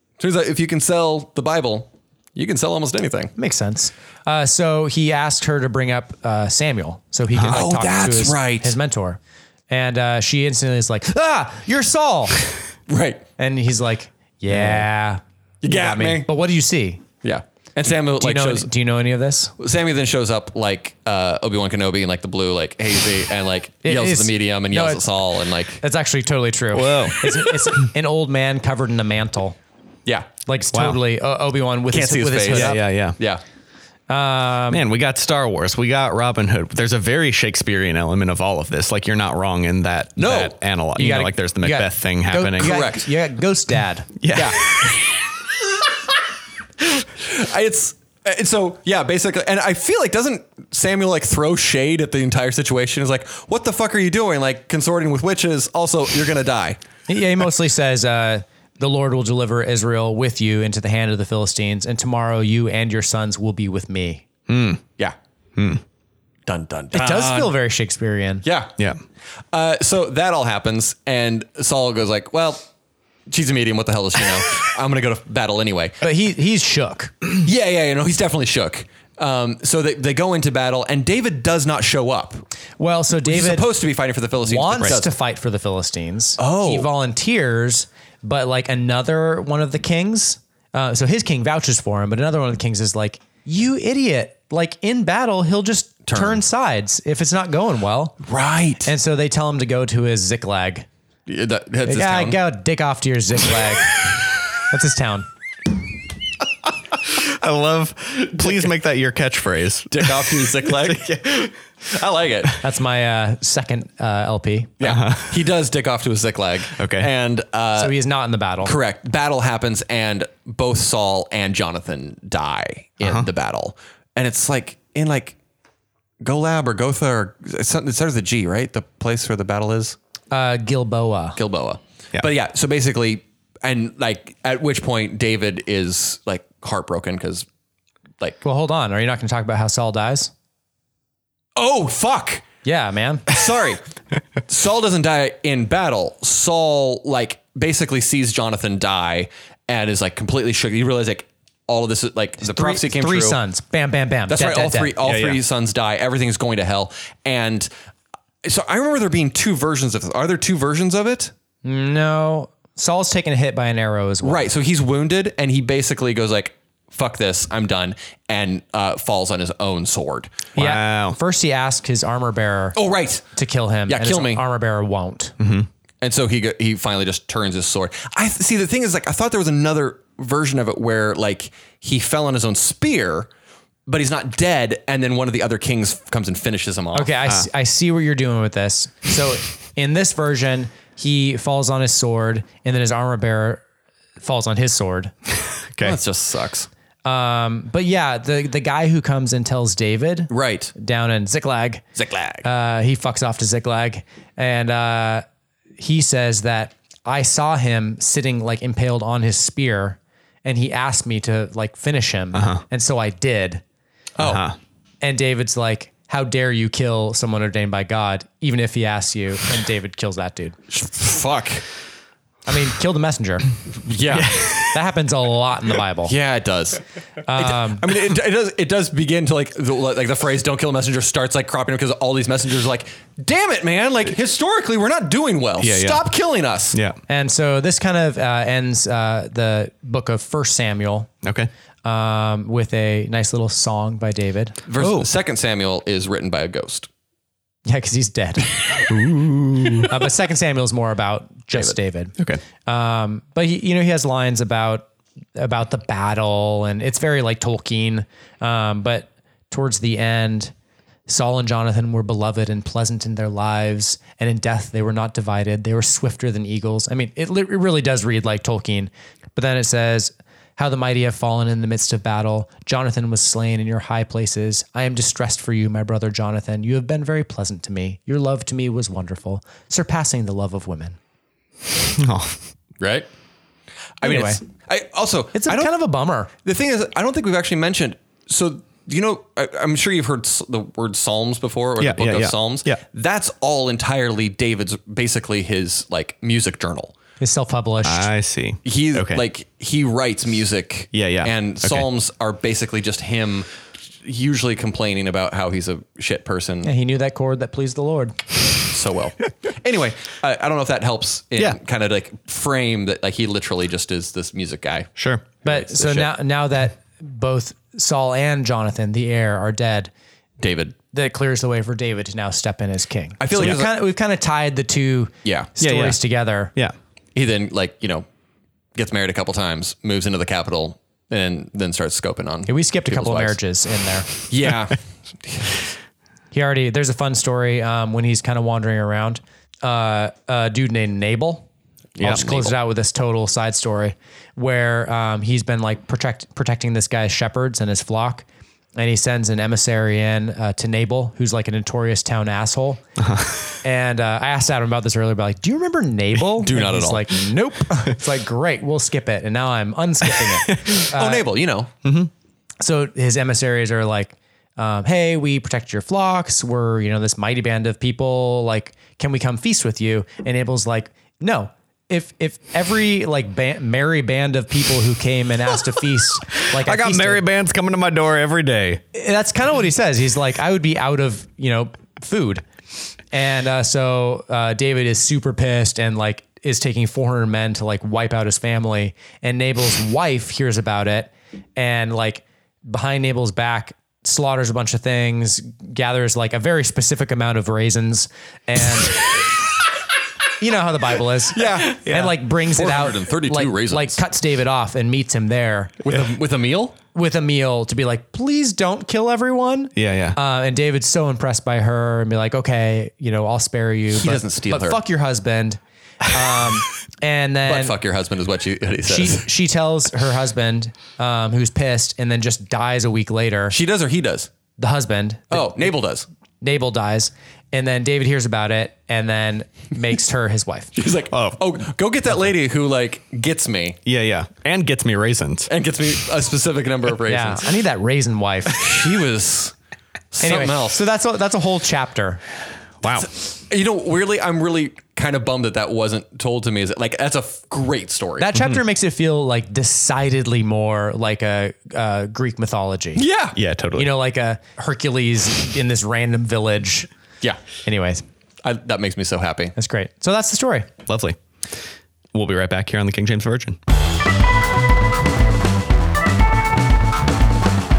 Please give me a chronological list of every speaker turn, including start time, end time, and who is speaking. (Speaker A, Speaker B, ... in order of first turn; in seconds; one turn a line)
Speaker A: 0.2-3.3
Speaker B: 3.4-9.2
Speaker A: 7.5-8.8
Speaker B: 9.7-12.4
Speaker A: 12.9-13.2
Speaker B: 13.4-17.0
Speaker A: 15.6-16.3
Speaker A: 17.2-18.7
Speaker B: 18.2-19.5
Speaker A: 19.6-25.8
Speaker B: 23.8-25.0
Speaker B: 25.8-29.6
Speaker C: 26.7-27.9
Speaker B: 30.5-32.8
Speaker C: 30.7-31.0
Speaker A: 31.9-33.4
Speaker C: 32.5-33.2
Speaker B: 34.1-34.8
Speaker C: 34.7-42.8
Speaker A: 40.2-40.6
Speaker B: 41.0-44.1
Speaker A: 42.6-43.1
Speaker C: 44.2-45.0
Speaker A: 44.3-45.0
Speaker A: 47.2-56.8
Speaker B: 57.1-64.2
Speaker C: 64.5-64.8
Speaker C: 65.6-65.8
Speaker A: 66.5-67.5
Speaker B: 66.9-68.4
Speaker A: 68.4-68.7
Speaker A: 69.5-72.7
Speaker A: 73.3-76.0
Speaker B: 76.0-77.2
Speaker A: 77.4-82.4
Speaker B: 82.8-83.7
Speaker A: 83.2-85.1
Speaker B: 84.5-98.2
Speaker A: 86.4-86.9
Speaker A: 96.1-96.4
Speaker A: 98.2-98.9
Speaker B: 98.8-100.9
Speaker A: 101.3-102.4
Speaker B: 101.9-103.9
Speaker B: 104.7-105.3
Speaker C: 107.0-111.5
Speaker A: 109.9-111.1
Speaker A: 111.9-112.6
Speaker B: 112.6-114.7
Speaker A: 114.8-117.9
Speaker C: 114.8-115.4
Speaker C: 116.8-117.1
Speaker B: 117.8-118.7
Speaker A: 118.6-125.4
Speaker C: 123.0-123.3
Speaker A: 126.2-130.0
Speaker B: 130.3-131.4
Speaker A: 131.4-137.5
Speaker B: 138.4-140.3
Speaker A: 141.6-142.4
Speaker B: 142.6-143.3
Speaker A: 143.3-143.8
Speaker A: 144.5-153.4
Speaker B: 152.4-154.9
Speaker A: 154.3-157.7
Speaker C: 155.0-155.4
Speaker A: 158.4-161.3
Speaker B: 161.6-164.4
Speaker A: 164.2-170.4
Speaker C: 170.6-171.2
Speaker B: 170.6-172.8
Speaker A: 172.8-173.2
Speaker B: 173.3-175.3
Speaker A: 173.9-174.4
Speaker C: 175.4-175.7
Speaker A: 176.0-183.3
Speaker A: 183.9-187.1
Speaker B: 186.9-193.6
Speaker B: 194.2-195.1
Speaker C: 195.7-196.0
Speaker A: 195.8-196.7
Speaker B: 197.1-201.8
Speaker A: 200.3-200.7
Speaker A: 202.0-202.4
Speaker B: 202.4-205.2
Speaker B: 205.8-213.6
Speaker C: 212.3-212.6
Speaker A: 214.2-214.4
Speaker C: 214.2-214.6
Speaker B: 215.0-220.6
Speaker A: 220.7-221.6
Speaker B: 222.5-223.5
Speaker A: 223.9-224.3
Speaker C: 224.1-224.8
Speaker B: 224.7-226.1
Speaker A: 226.1-226.8
Speaker B: 227.3-227.8
Speaker A: 227.4-236.8
Speaker C: 235.6-236.0
Speaker C: 236.7-237.0
Speaker B: 237.1-241.1
Speaker C: 241.2-241.5
Speaker B: 241.8-244.6
Speaker A: 244.7-246.9
Speaker C: 244.8-245.1
Speaker B: 247.7-248.5
Speaker C: 248.9-249.9
Speaker B: 249.9-260.5
Speaker B: 261.1-281.0
Speaker C: 281.8-282.4
Speaker A: 282.8-283.1
Speaker A: 284.0-285.7
Speaker B: 284.0-284.4
Speaker B: 285.3-286.3
Speaker A: 286.4-296.9
Speaker C: 291.8-292.8
Speaker B: 297.2-298.1
Speaker C: 297.8-299.2
Speaker A: 298.6-303.5
Speaker C: 300.9-301.9
Speaker A: 304.0-306.7
Speaker B: 306.6-308.2
Speaker A: 308.7-314.9
Speaker C: 315.0-315.3
Speaker A: 315.4-316.1
Speaker B: 315.4-319.9
Speaker A: 320.4-320.8
Speaker B: 320.9-326.5
Speaker A: 323.2-323.7
Speaker A: 325.2-325.5
Speaker C: 325.6-326.0
Speaker A: 327.1-328.1
Speaker A: 328.8-333.4
Speaker B: 332.5-334.1
Speaker A: 334.2-335.5
Speaker B: 336.3-341.5
Speaker A: 342.0-342.5
Speaker B: 342.0-348.2
Speaker B: 348.8-352.8
Speaker C: 353.0-353.5
Speaker B: 353.6-361.2
Speaker A: 356.4-357.1
Speaker A: 360.9-361.7
Speaker C: 361.9-362.1
Speaker B: 362.6-377.2
Speaker C: 376.5-378.8
Speaker B: 378.9-382.4
Speaker B: 383.1-399.0
Speaker B: 400.4-405.8
Speaker A: 401.4-401.9
Speaker C: 401.8-402.1
Speaker A: 402.5-404.0
Speaker A: 405.8-406.8
Speaker B: 406.9-417.8
Speaker C: 409.8-410.2
Speaker A: 413.9-414.8
Speaker A: 417.5-419.3
Speaker B: 418.9-423.6
Speaker A: 423.5-424.3
Speaker B: 424.6-425.7
Speaker A: 425.3-426.1
Speaker B: 426.4-430.7
Speaker A: 430.8-433.8
Speaker C: 431.1-431.4
Speaker C: 433.9-435.5
Speaker A: 435.5-437.5
Speaker B: 437.1-438.6
Speaker A: 438.5-439.5
Speaker A: 440.1-440.8
Speaker B: 440.2-442.2
Speaker C: 442.8-443.1
Speaker A: 442.9-448.3
Speaker B: 448.2-453.0
Speaker A: 453.0-453.4
Speaker C: 453.4-453.9
Speaker B: 453.8-456.9
Speaker B: 457.6-458.0
Speaker A: 458.4-459.5
Speaker B: 459.6-460.7
Speaker C: 460.9-461.2
Speaker C: 462.1-463.6